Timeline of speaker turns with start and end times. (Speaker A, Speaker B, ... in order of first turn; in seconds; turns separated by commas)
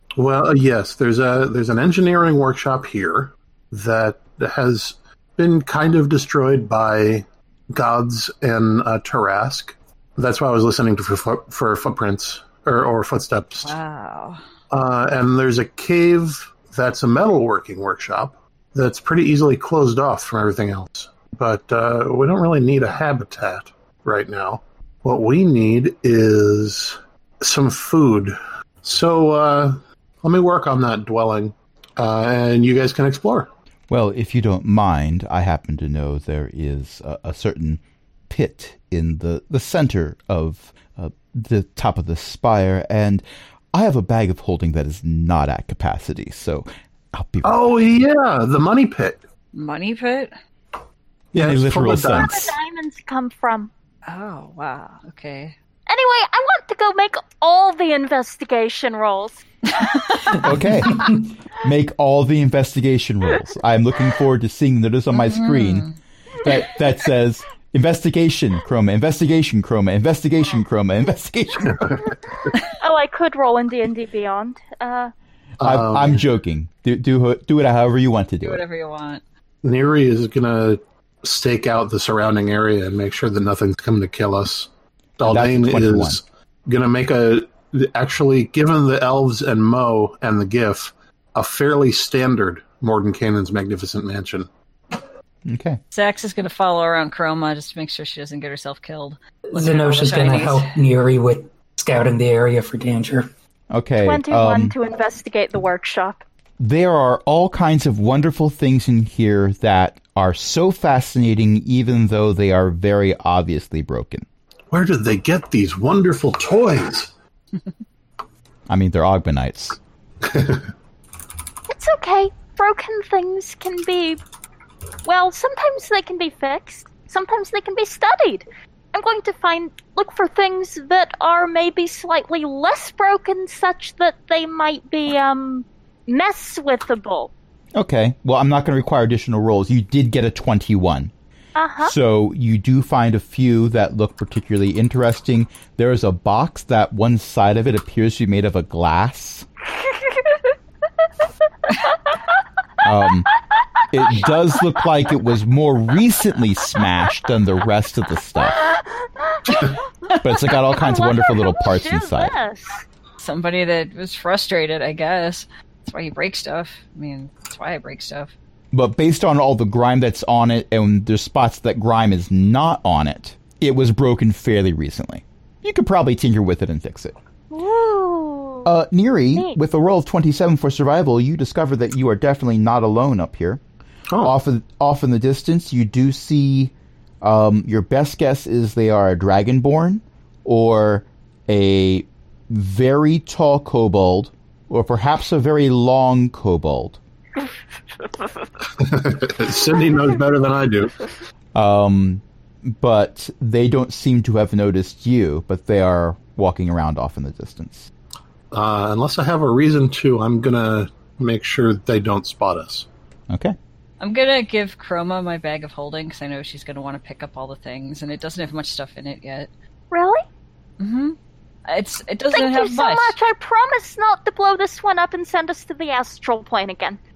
Speaker A: 0.1-13.7, Speaker B: 13.6-14.4, Speaker A: 14.7-33.5, Speaker C: 33.9-47.8, Speaker A: 47.4-49.2, Speaker B: 49.5-50.3, Speaker A: 51.3-52.4, Speaker C: 51.3-52.5, Speaker D: 51.9-53.7, Speaker B: 54.0-55.5, Speaker D: 55.9-59.4, Speaker B: 59.7-60.4, Speaker C: 60.4-65.9, Speaker B: 65.1-66.0, Speaker C: 66.4-72.0, Speaker A: 71.7-72.0, Speaker D: 72.7-75.1, Speaker A: 75.6-76.2, Speaker C: 75.6-78.6, Speaker B: 78.4-79.2, Speaker A: 79.6-94.5, Speaker C: 85.2-86.2, Speaker C: 95.5-95.8, Speaker B: 95.9-100.8, Speaker E: 99.5-103.3, Speaker C: 103.7-104.7, Speaker D: 104.0-106.2, Speaker C: 106.6-114.2, Speaker A: 114.7-117.1, Speaker C: 118.7-119.8, Speaker A: 120.2-120.7, Speaker D: 121.7-124.2, Speaker D: 125.0-137.3, Speaker C: 137.7-141.1, Speaker D: 141.6-141.9, Speaker C: 141.8-149.5, Speaker C: 152.8-153.3, Speaker C: 153.9-158.6, Speaker D: 159.3-159.7, Speaker C: 160.2-162.3, Speaker D: 160.7-162.8, Speaker B: 163.2-168.3, Speaker C: 168.7-177.1, Speaker D: 177.5-178.7, Speaker C: 178.6-183.6, Speaker C: 184.2-197.0, Speaker A: 198.8-201.0, Speaker C: 201.5-207.9, Speaker A: 208.5-212.9, Speaker C: 213.3-213.6, Speaker B: 214.0-219.5, Speaker D: 219.9-220.2, Speaker B: 220.8-223.1, Speaker D: 222.3-227.0